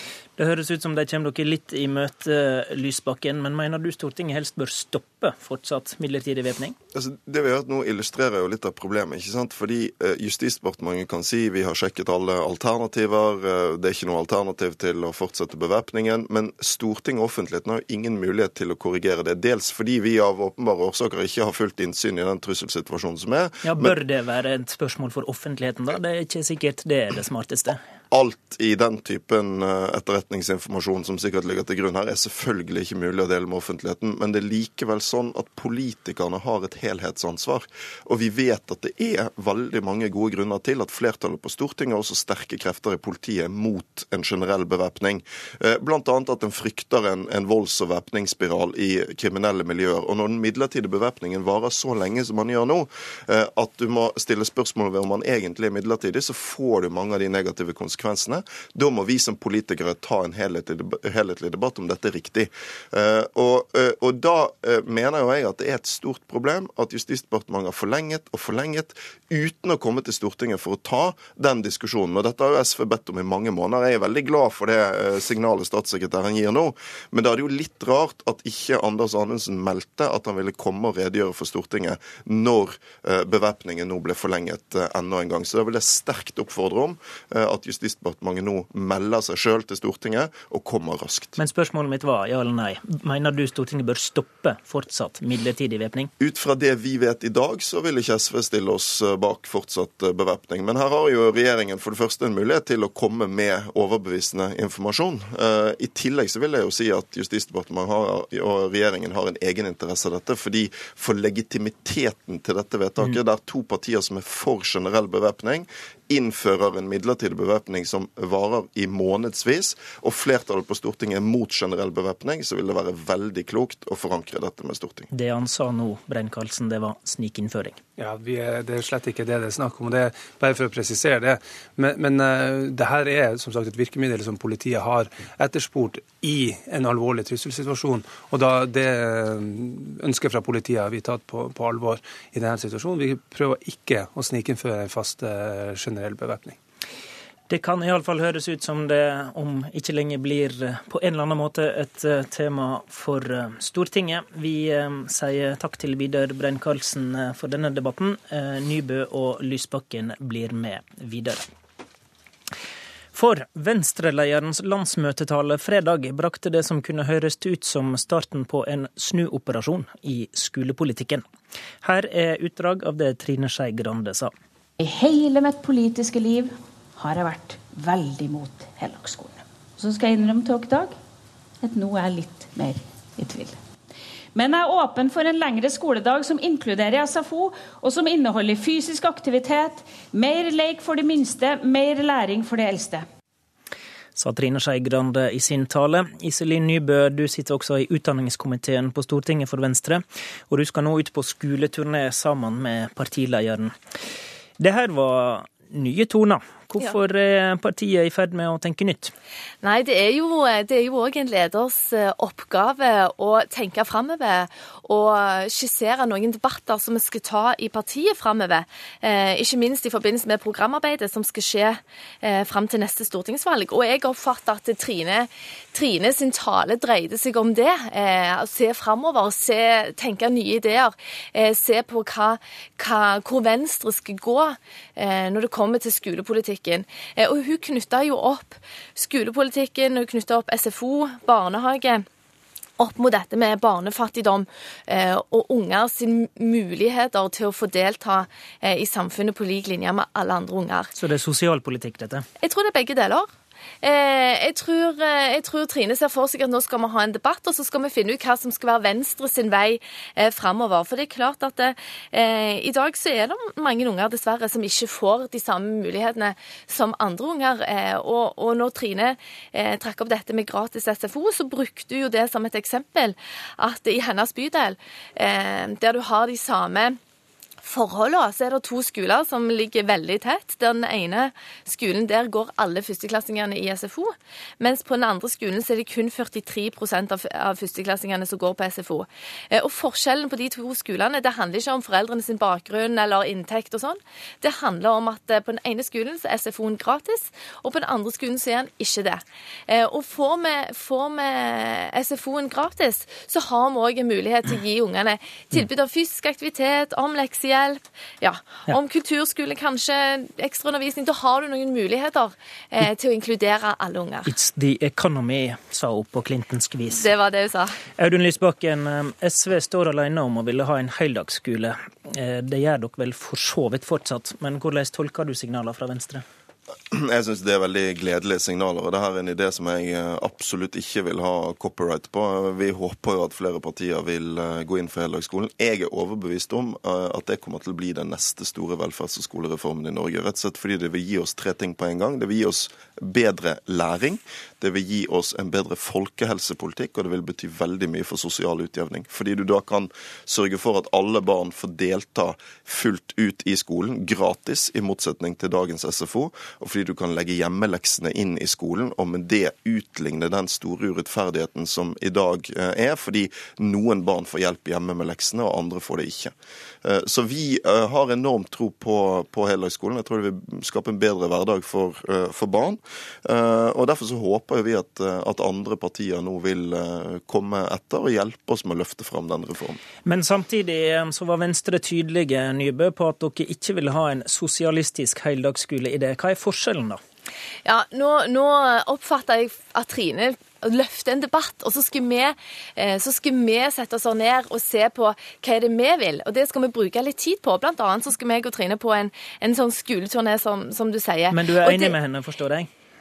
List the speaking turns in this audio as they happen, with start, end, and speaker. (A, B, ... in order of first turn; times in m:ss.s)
0:00.4-0:06.8 A
0:06.9-0:24.0 B
0:23.6-0:27.8 A
0:28.1-1:31.4 B
1:31.4-1:36.1 A
1:36.2-2:05.1 B
2:05.1-2:07.8 A
2:08.0-2:26.6 C
2:27.5-2:41.4 A
2:43.1-2:51.2 A
2:51.8-2:54.3 A
2:54.8-3:00.9 D
3:01.6-3:03.6 D
3:04.3-3:13.0 D
3:14.2-3:23.7 A
3:24.6-3:29.1 A
3:29.6-4:02.0 E
4:02.8-4:10.9 E
4:11.0-4:12.2 A
4:12.4-4:13.3 E
4:13.8-4:37.0 E
4:37.6-5:14.3 E
5:14.3-5:17.1 A
5:16.9-5:17.8 E
5:18.0-5:26.2 A
5:26.9-6:19.8 B
6:20.0-6:27.0 A
6:27.6-6:41.9 E
6:41.3-6:42.7 A